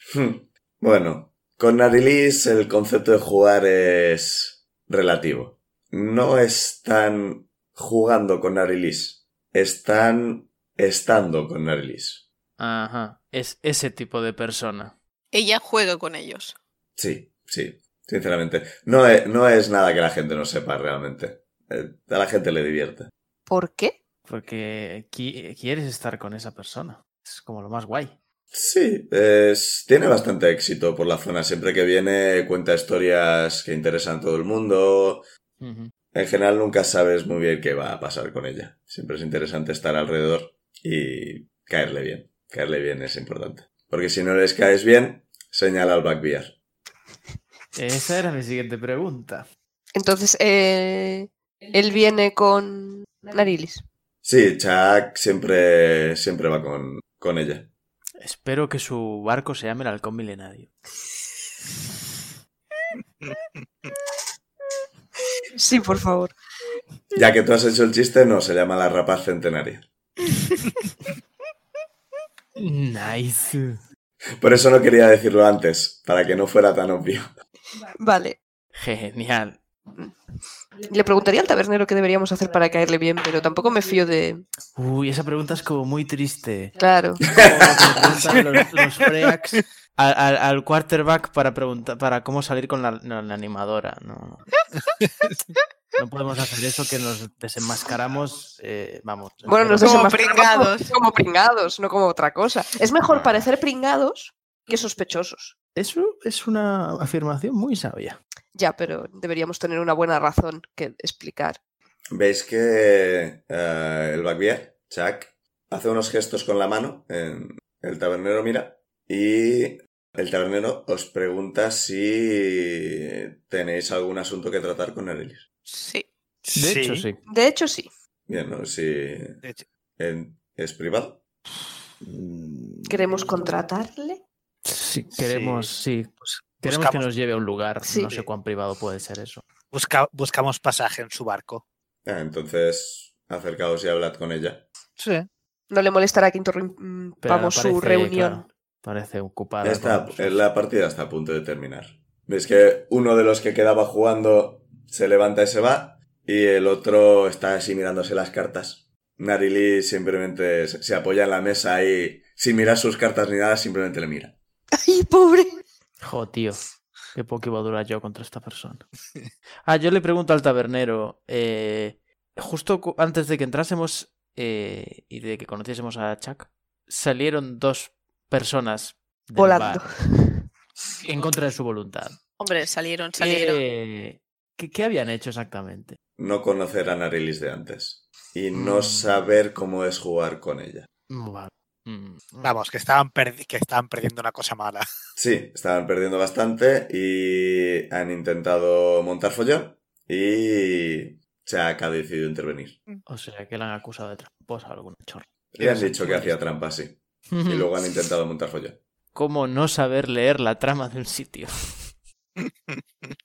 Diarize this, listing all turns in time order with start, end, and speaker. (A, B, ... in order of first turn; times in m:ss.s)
0:00.1-0:12.2 A
0:12.6-0:15.0 B
0:15.3-0:16.6 C
0:17.0-0:23.1 A
0:23.5-0:24.0 D
0:24.3-0:28.1 B
0:28.5-0:35.2 A
0:35.6-0:35.9 B
0:36.1-0:46.6 A
0:47.7-0:49.4 B
0:49.9-0:53.8 D
0:54.2-0:57.7 A
0:58.2-1:00.7 B
1:05.6-1:06.3 D
1:07.1-1:09.8 A
1:12.6-1:13.8 B
1:14.4-1:17.3 A
1:18.0-1:18.4 D
1:18.7-1:19.6 B
1:20.8-1:24.4 D
1:24.7-1:34.5 B
1:26.8-1:27.3 D
1:27.3-1:27.7 A
1:35.0-1:35.3 E
1:36.0-1:40.1 B
1:39.4-1:45.5 D
1:39.8-1:41.0 C
1:43.1-1:43.4 B
1:45.8-1:48.2 B
1:48.5-1:51.6 D
1:52.1-2:05.4 A
2:05.7-2:06.1 C
2:06.4-2:07.1 E
2:06.5-2:07.2 B
2:07.3-2:07.9 D
2:08.3-2:09.4 A
2:10.0-2:11.2 A
2:12.0-2:13.2 B
2:12.9-2:14.2 D
2:14.6-2:19.4 B
2:15.2-2:15.7 E
2:16.2-2:17.1 E
2:17.8-2:18.1 D
2:19.7-2:21.6 E
2:22.0-2:24.6 A
2:25.0-2:25.3 E
2:25.7-2:28.4 D
2:27.2-2:30.4 B
2:29.6-2:44.3 A
2:44.7-2:45.6 D
2:46.0-2:48.8 B
2:49.6-2:59.9 B
2:59.4-3:00.4 D
3:01.0-3:02.2 B
3:02.4-3:03.6 C
3:03.2-3:06.0 B
3:06.2-3:10.9 A
3:08.5-3:09.2 B
3:11.1-3:12.5 B
3:12.4-3:14.8 E
3:15.2-3:22.8 A
3:23.0-3:26.3 B
3:25.5-3:28.8 A
3:27.3-3:27.7 B
3:29.1-3:31.9 B
3:32.4-3:32.8 E